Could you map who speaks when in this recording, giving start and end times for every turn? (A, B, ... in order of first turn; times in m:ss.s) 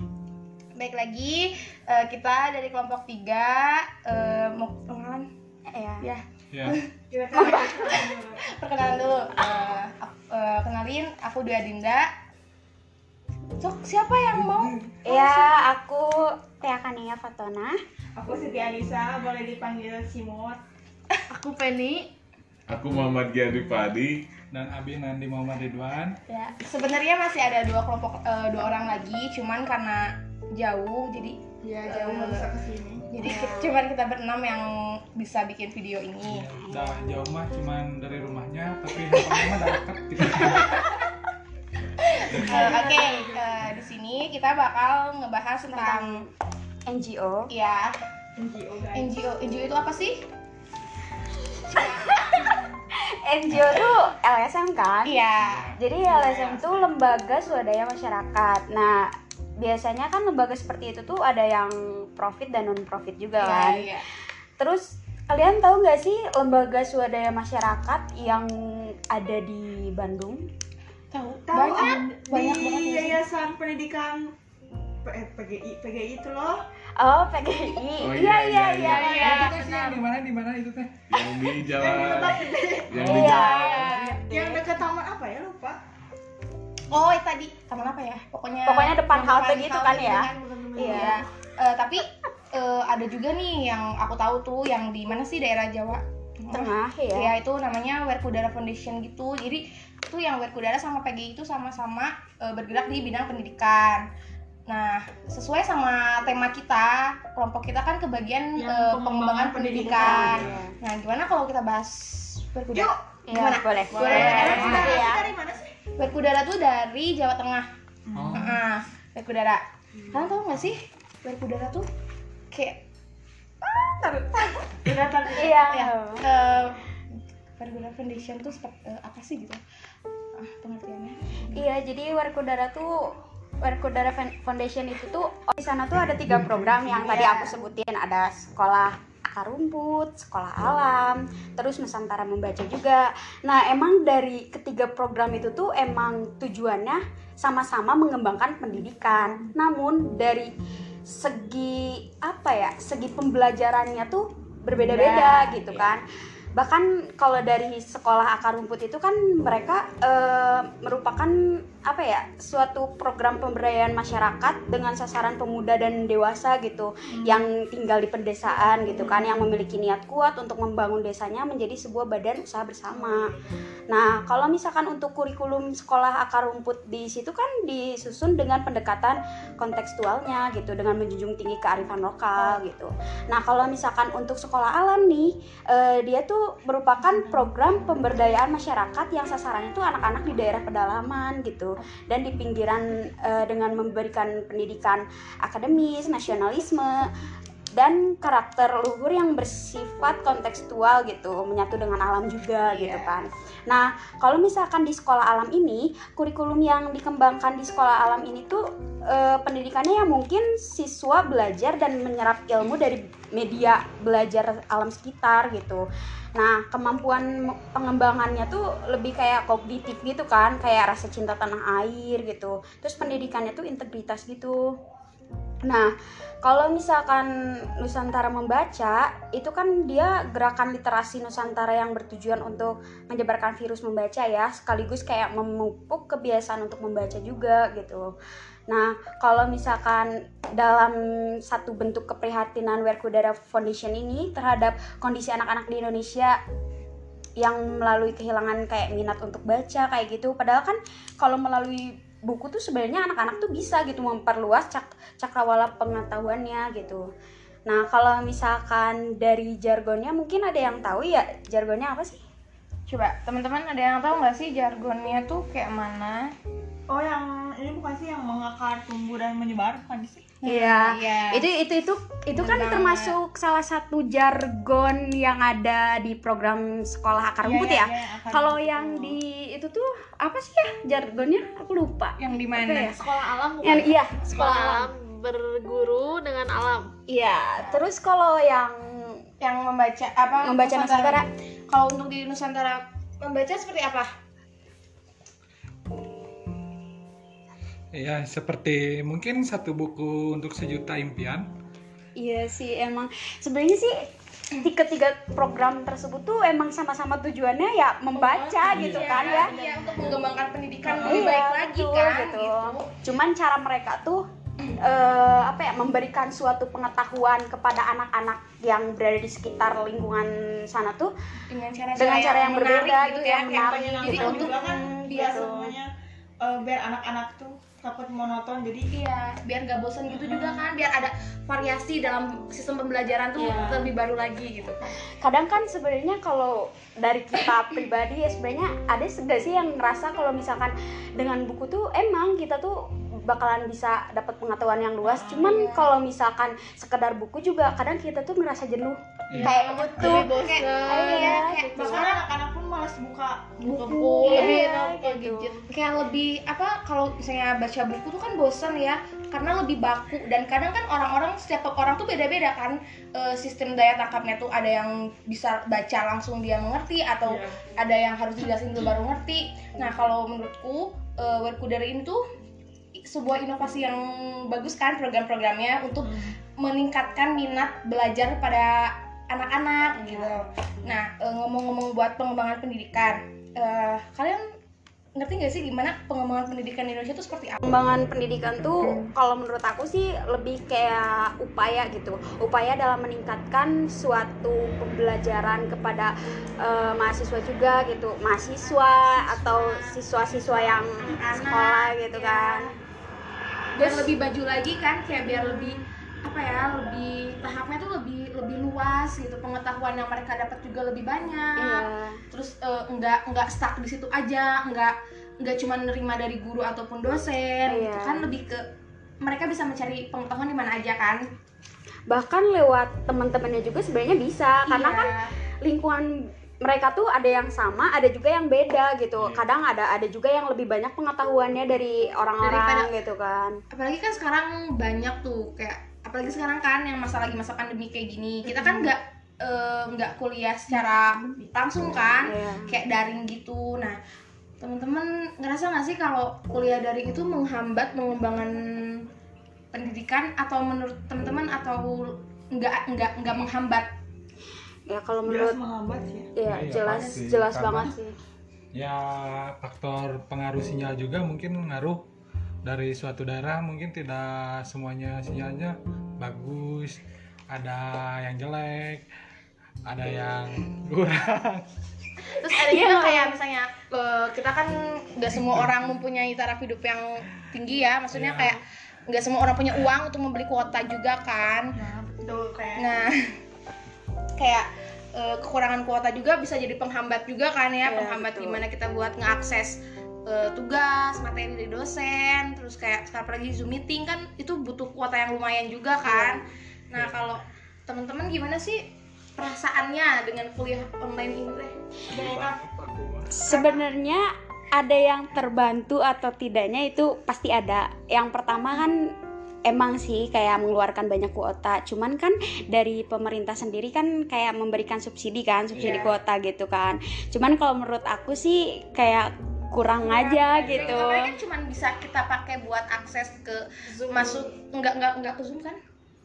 0:00.8-0:05.3 A
0:05.7-0:06.0 B
0:06.0-0:06.8 A
0:06.5-0:06.8 C
0:07.1-0:08.4 D
0:07.3-0:12.1 A
0:13.6-0:15.5 A
0:14.3-0:14.8 C
0:15.0-0:17.8 B
0:18.2-0:20.6 D
0:21.3-0:22.1 E
0:22.7-0:24.2 F
0:24.5-0:26.2 C
0:26.3-0:30.0 A
0:30.6-0:32.5 A
0:31.6-0:33.0 D
0:33.1-0:36.5 A
0:33.2-0:33.8 B
0:36.2-0:40.8 C
0:36.6-0:37.0 B
0:40.5-0:40.7 A
0:42.1-0:46.2 A
0:42.4-0:43.5 D
0:45.6-0:46.3 B
0:46.9-0:47.4 B
0:47.5-0:47.9 A
0:48.4-0:49.1 D
0:49.0-0:50.2 A
0:51.7-0:52.5 B
0:51.7-0:52.5 A
0:53.3-0:55.2 B
0:55.0-0:55.7 A
0:55.4-0:55.7 C
0:55.8-0:59.0 B
0:59.6-1:03.9 B
1:03.4-1:04.0 A
1:04.6-1:10.4 B
1:11.1-1:13.2 A
1:11.4-1:14.2 D
1:15.0-1:16.6 D
1:17.0-1:19.8 B
1:18.0-1:19.0 F
1:19.0-1:19.5 A
1:19.0-1:19.9 D
1:19.0-1:20.9 C
1:21.1-1:23.8 F
1:21.8-1:23.5 D
1:23.0-1:24.2 C
1:23.0-1:24.5 B
1:24.3-1:25.8 D
1:24.3-1:24.6 A
1:26.9-1:44.0 A
1:28.6-1:31.2 B
1:30.4-1:31.1 D
1:36.5-1:37.3 B
1:44.7-1:55.2 A
1:48.6-1:50.3 D
1:49.9-1:50.7 B
1:50.2-1:50.6 C
1:52.7-1:53.0 D
1:53.3-1:55.3 B
1:53.9-1:55.7 D
1:56.0-1:57.7 A
1:58.1-1:58.4 D
1:58.2-1:58.6 C
1:58.3-2:01.8 A
2:02.5-2:02.8 A
2:04.8-2:05.4 D
2:04.9-2:09.6 A
2:05.4-2:06.2 B
2:10.4-2:11.2 A
2:11.5-2:12.9 B
2:13.6-2:30.5 B
2:16.8-2:17.6 A
2:29.1-2:29.4 D
2:31.1-2:36.0 B
2:35.0-2:35.2 A
2:36.6-2:41.3 B
2:41.9-2:53.3 B
2:47.2-2:47.4 D
2:48.5-2:49.5 D
2:52.9-2:53.5 D
2:53.9-3:16.9 B
3:17.8-3:35.8 B
3:22.6-3:23.1 A
3:36.4-3:44.6 B
3:46.4-3:47.3 B
3:47.8-3:58.1 B
3:58.7-4:00.9 B
4:01.5-4:06.4 B
4:07.4-4:17.0 B
4:17.7-4:22.2 B
4:22.9-4:26.2 A
4:26.9-4:30.3 D
4:30.4-4:31.4 A
4:30.4-4:43.0 B
4:32.3-4:33.1 A
4:37.4-4:39.2 D
4:42.2-4:43.0 A
4:43.0-4:43.9 D
4:43.6-4:44.8 B
4:44.3-4:46.9 E
4:47.1-4:49.2 B
4:47.6-4:47.8 A
4:49.4-4:54.1 A
4:50.4-4:51.2 B
4:57.9-5:01.5 C
5:02.2-5:03.9 B
5:04.6-5:09.5 B
5:08.2-5:12.9 A
5:08.7-5:09.1 C
5:09.0-5:10.2 D
5:11.0-5:14.2 B
5:14.8-5:21.1 B
5:21.5-5:25.6 A
5:22.0-5:25.7 B
5:23.4-5:25.8 D
5:26.4-5:28.8 D
5:28.9-5:34.9 A
5:30.1-5:30.6 D
5:33.4-5:33.8 B
5:33.4-5:33.9 D
5:35.2-5:52.2 B
5:45.1-5:45.9 A
5:45.2-5:45.6 D
5:49.3-5:49.6 C
5:49.4-5:52.2 A
5:49.4-5:54.6 D
5:53.6-6:12.2 A
5:53.6-5:55.6 B
6:07.2-6:07.5 D
6:13.0-6:24.4 A
6:16.0-6:16.3 D
6:19.9-6:21.0 B
6:25.2-6:27.6 A
6:27.6-6:36.1 B
6:36.6-6:42.7 B
6:38.6-6:42.8 A
6:43.8-6:58.6 A
6:43.8-6:44.1 B
6:45.1-6:45.7 B
6:51.6-6:52.2 B
6:57.6-6:58.3 B
6:59.2-7:01.2 A
7:02.1-7:05.1 B
7:04.7-7:05.2 A
7:05.6-7:06.0 B
7:06.6-7:13.6 B
7:09.2-7:09.4 C
7:12.4-7:12.9 A
7:13.7-7:24.0 A
7:22.2-7:22.7 B
7:24.6-7:29.0 A
7:29.7-7:33.9 A
7:34.9-7:35.6 B
7:35.2-7:36.3 D
7:36.4-7:38.1 B
7:36.4-7:37.9 C
7:36.9-7:37.2 D
7:38.7-7:42.0 C
7:42.6-7:47.0 C
7:47.5-7:49.0 C
7:49.8-7:51.6 C
7:52.3-8:01.7 A
7:52.5-7:53.4 B
7:58.1-7:58.6 C
8:01.8-8:02.9 D
8:02.8-8:03.1 A
8:04.4-8:18.8 A
8:07.8-8:08.6 B
8:16.1-8:16.4 B
8:19.4-8:21.7 A
8:22.1-8:22.9 C
8:22.1-8:23.7 D
8:23.4-8:24.2 B
8:24.8-8:29.0 B
8:29.7-8:41.3 B
8:35.8-8:36.1 C
8:35.8-8:36.1 A
8:40.1-8:45.8 A
8:40.4-8:40.8 D
8:44.1-8:44.3 D